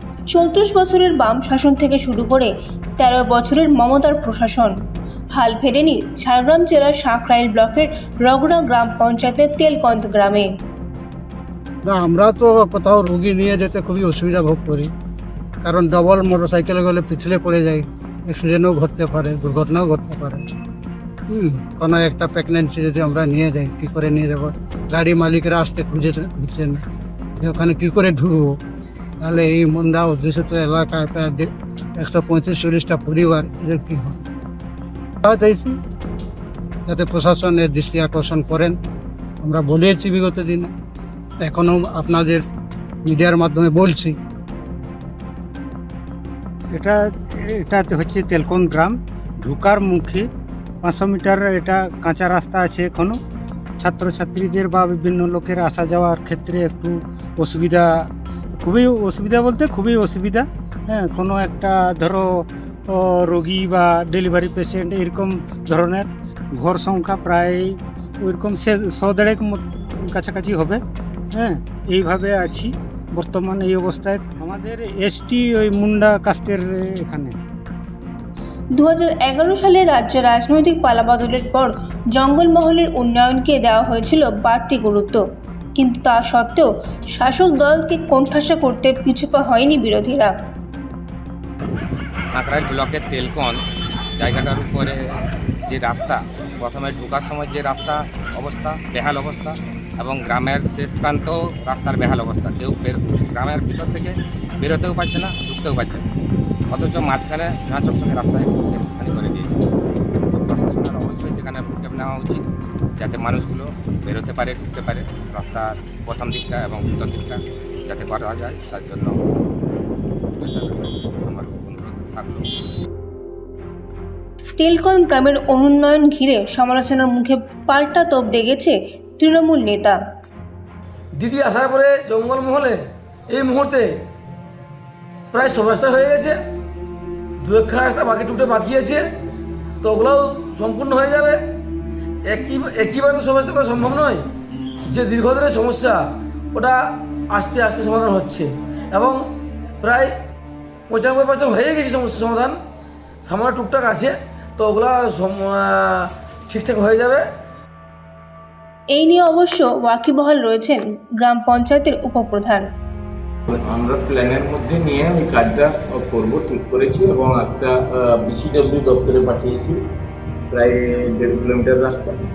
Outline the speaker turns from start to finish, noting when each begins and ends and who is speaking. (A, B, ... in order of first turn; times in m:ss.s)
0:00.3-0:04.7 A
0:05.3-0:10.5 A
0:11.8-0:14.9 B
0:15.6-0:20.4 B
0:21.3-0:26.8 B
0:27.4-0:28.6 B
0:29.2-0:34.2 B
0:35.2-0:35.8 B
0:36.9-0:38.8 B
0:39.4-0:40.7 B
0:41.4-0:42.4 B
0:43.0-0:44.2 B
0:47.6-0:50.2 C
0:50.8-0:53.2 C
0:53.8-0:57.9 C
0:58.6-1:02.3 C
1:03.0-1:06.1 C
1:06.6-1:07.7 C
1:08.2-1:10.8 C
1:11.4-1:17.4 C
1:18.8-1:25.2 A
1:25.8-1:30.3 A
1:32.3-1:33.6 D
1:34.2-1:35.0 D
1:35.7-1:46.0 D
1:46.7-1:49.6 D
1:50.3-1:52.4 D
1:53.0-1:59.2 D
2:00.4-2:02.5 D
2:04.6-2:10.0 A
2:11.2-2:13.9 E
2:15.3-2:16.4 E
2:17.4-2:19.0 E
2:19.8-2:21.4 E
2:22.2-2:24.2 E
2:24.9-2:26.0 E
2:27.3-2:29.2 E
2:29.8-2:30.1 E
2:30.9-2:32.6 E
2:33.2-2:37.2 E
2:38.9-2:42.6 A
2:43.7-2:47.7 F
2:48.3-2:49.7 F
2:50.5-2:52.1 F